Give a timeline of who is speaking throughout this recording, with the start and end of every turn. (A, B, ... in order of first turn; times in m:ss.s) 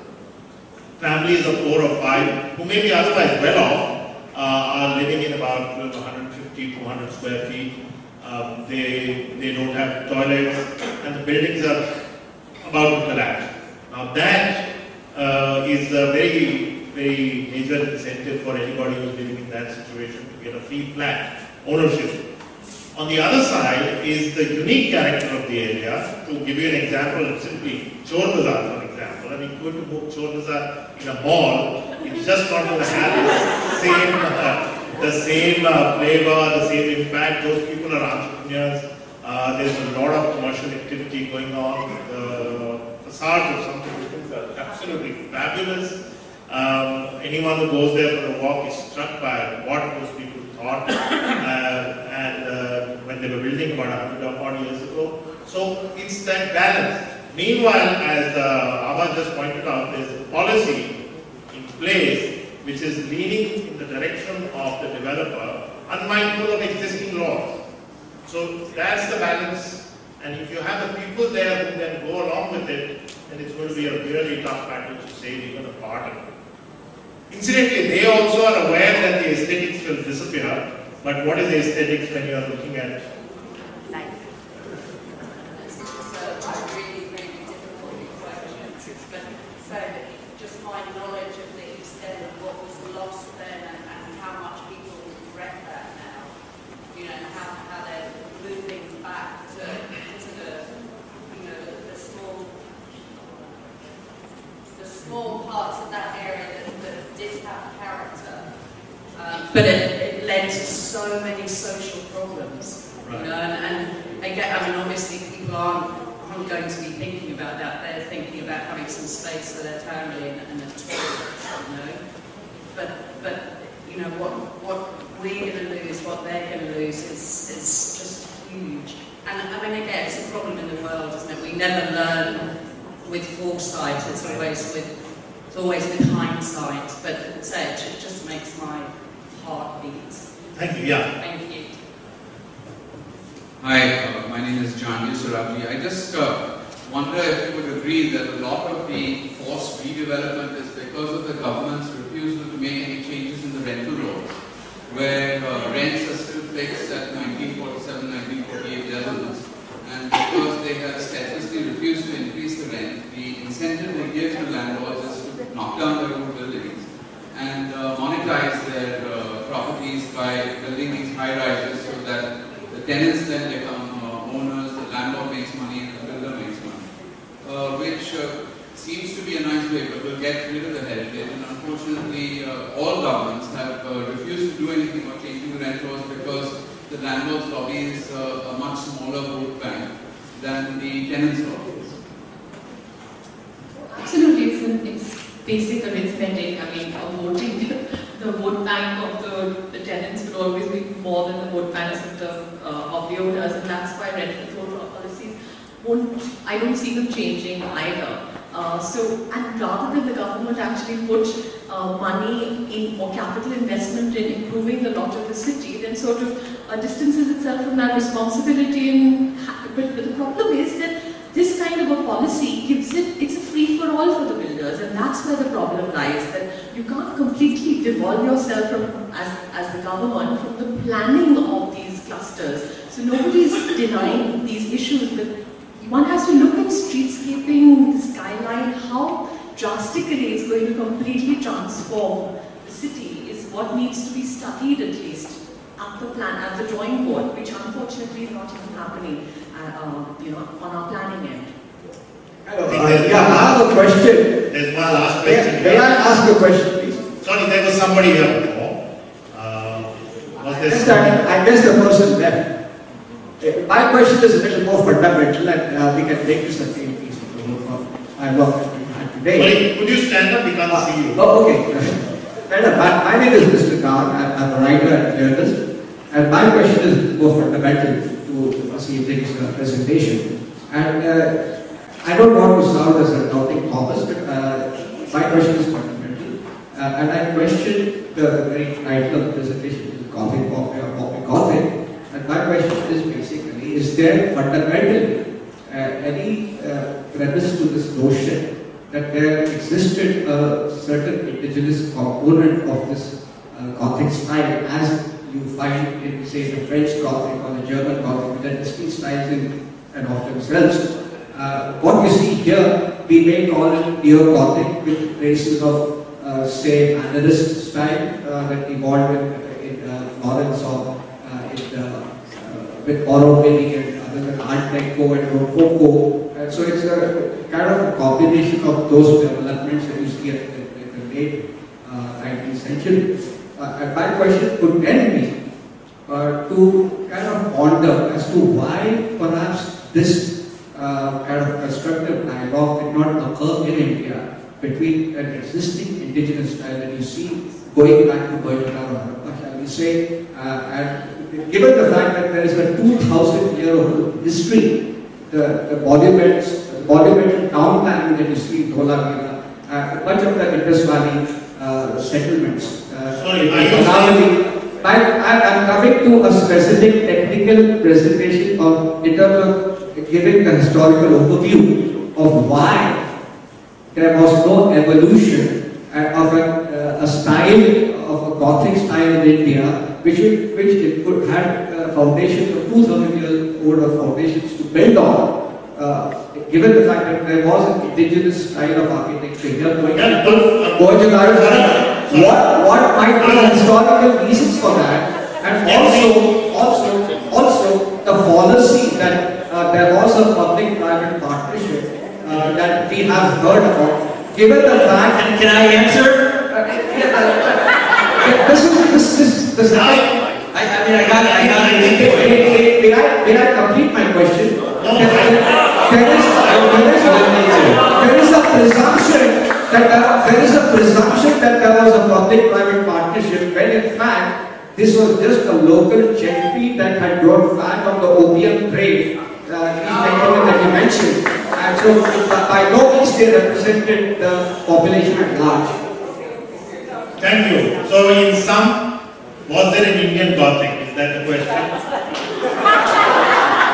0:01.0-0:11.8 A
0:12.6-0:14.6 A
0:15.1-0:22.2 A
0:22.9-1:00.9 A
1:01.5-1:07.5 A
1:08.2-1:16.2 A
1:17.3-1:23.0 A
1:23.9-1:24.3 B
1:25.5-1:36.4 B
1:36.9-1:42.6 B
1:44.7-1:48.5 B
1:49.1-2:02.0 B
1:53.0-1:53.3 A
2:02.7-2:14.9 B
2:15.5-2:20.3 B
2:20.5-2:21.0 A
2:21.2-2:21.7 B
2:23.6-2:56.9 C
2:57.4-3:12.0 C
3:13.8-4:11.5 D
4:12.4-4:14.4 E
4:12.7-4:13.7 A
4:14.5-4:16.0 A
4:15.2-4:17.0 E
4:17.2-4:18.8 A
4:19.3-4:21.3 A
4:20.7-4:22.5 E
4:23.4-4:29.6 E
4:29.3-4:31.2 A
4:30.7-4:35.6 E
4:36.1-5:35.4 E
5:36.1-6:13.0 E
6:03.1-6:04.3 A
6:13.9-6:45.3 E
6:29.9-6:32.6 A
6:33.2-6:33.7 A
6:35.6-6:36.2 A
6:42.3-6:42.6 A
6:45.1-6:46.3 F
6:46.5-6:50.0 E
6:49.7-6:50.1 A
6:50.5-6:52.5 F
6:51.1-6:52.6 A
6:51.4-7:15.8 E
6:54.8-6:55.4 A
6:56.1-6:56.9 A
6:57.0-6:57.8 F
7:17.2-7:18.8 A
7:19.5-7:21.8 A